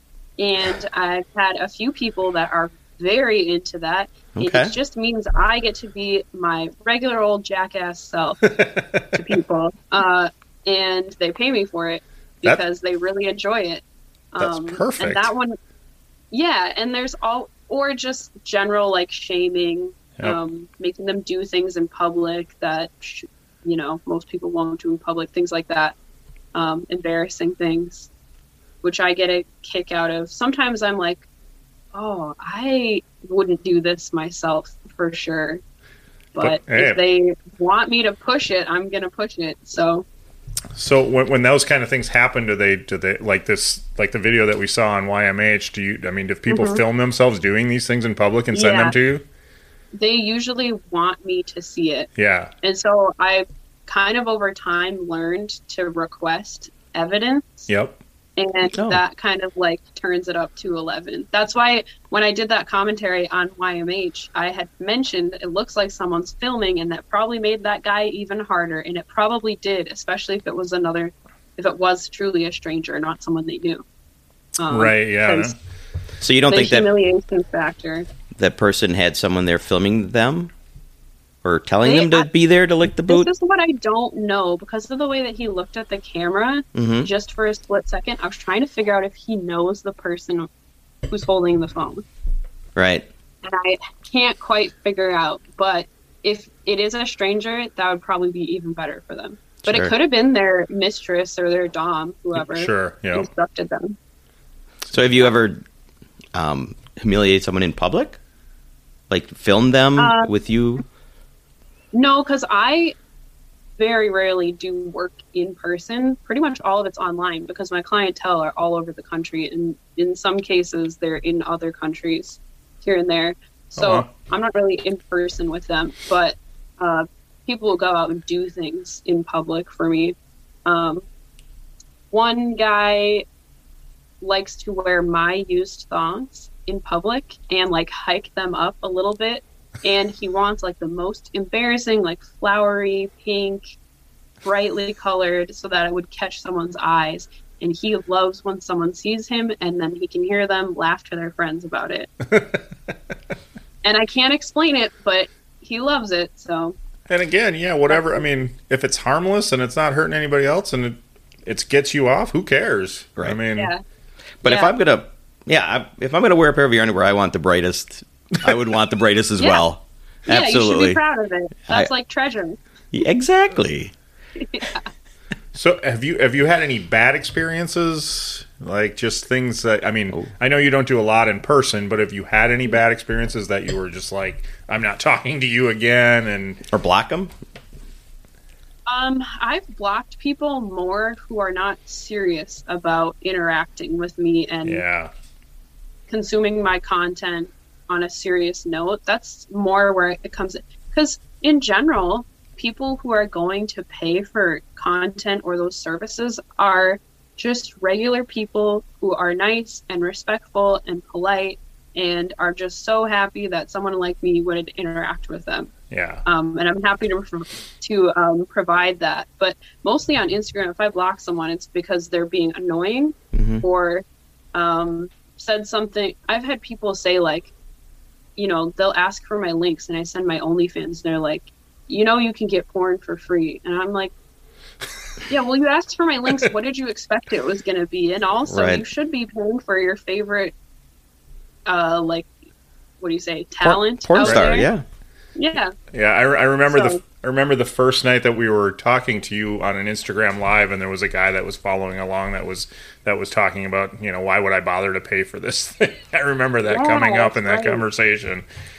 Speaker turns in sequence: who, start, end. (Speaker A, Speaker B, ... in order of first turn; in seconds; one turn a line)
Speaker A: 0.4-8.4
Speaker B: 4.3-4.7
Speaker C: 8.5-9.0
Speaker A: 9.1-15.6
Speaker C: 14.4-15.3
Speaker A: 16.3-25.9
Speaker A: 26.5-28.1
Speaker A: 28.8-31.2
Speaker A: 31.9-35.6
Speaker A: 36.3-40.0
Speaker C: 36.4-37.0
Speaker C: 40.8-49.2
Speaker A: 46.5-46.8
Speaker A: 48.5-48.9
Speaker A: 49.9-52.1
Speaker C: 52.2-52.5
Speaker A: 52.6-57.7
Speaker C: 57.7-58.0
Speaker A: 58.4-73.8
Speaker B: 58.7-59.0
Speaker A: 74.6-75.5
Speaker C: 74.7-75.5
Speaker B: 76.2-76.9
Speaker A: 76.5-78.1
Speaker B: 78.3-80.5
Speaker B: 81.4-83.3
Speaker A: 81.8-82.3
Speaker A: 83.1-90.5
Speaker B: 86.7-87.1
Speaker A: 91.1-92.0
Speaker B: 92.8-93.1
Speaker A: 93.4-104.0
Speaker B: 99.6-99.9
Speaker C: 102.3-103.3
Speaker B: 104.9-105.6
Speaker B: 106.3-108.2
Speaker B: 109.1-110.8
Speaker A: 110.0-110.3
Speaker A: 111.9-112.9
Speaker A: 113.8-131.0
Speaker C: 123.8-124.1
Speaker A: 132.1-133.2
Speaker A: 134.2-143.6
Speaker A: 144.4-152.1
Speaker C: 152.3-152.6
Speaker A: 153.8-156.8
Speaker C: 157.1-163.7
Speaker A: 157.9-158.2
Speaker A: 163.6-163.8
Speaker B: 164.4-171.0
Speaker A: 164.4-164.7
Speaker A: 169.4-169.6
Speaker A: 170.3-172.6
Speaker B: 172.9-173.9
Speaker A: 174.4-174.9
Speaker C: 175.5-186.6
Speaker B: 186.7-187.3
Speaker A: 188.9-194.8
Speaker C: 194.6-195.1
Speaker A: 196.1-215.7
Speaker C: 215.9-216.2
Speaker A: 216.2-227.5
Speaker B: 223.3-223.6
Speaker A: 228.4-234.1
Speaker A: 235.3-240.5
Speaker B: 238.5-238.8
Speaker A: 241.7-242.3
Speaker A: 243.0-244.7
Speaker B: 243.6-244.8
Speaker C: 244.2-244.5
Speaker A: 245.3-245.7
Speaker C: 245.9-258.4
Speaker A: 246.7-247.0
Speaker A: 256.7-257.8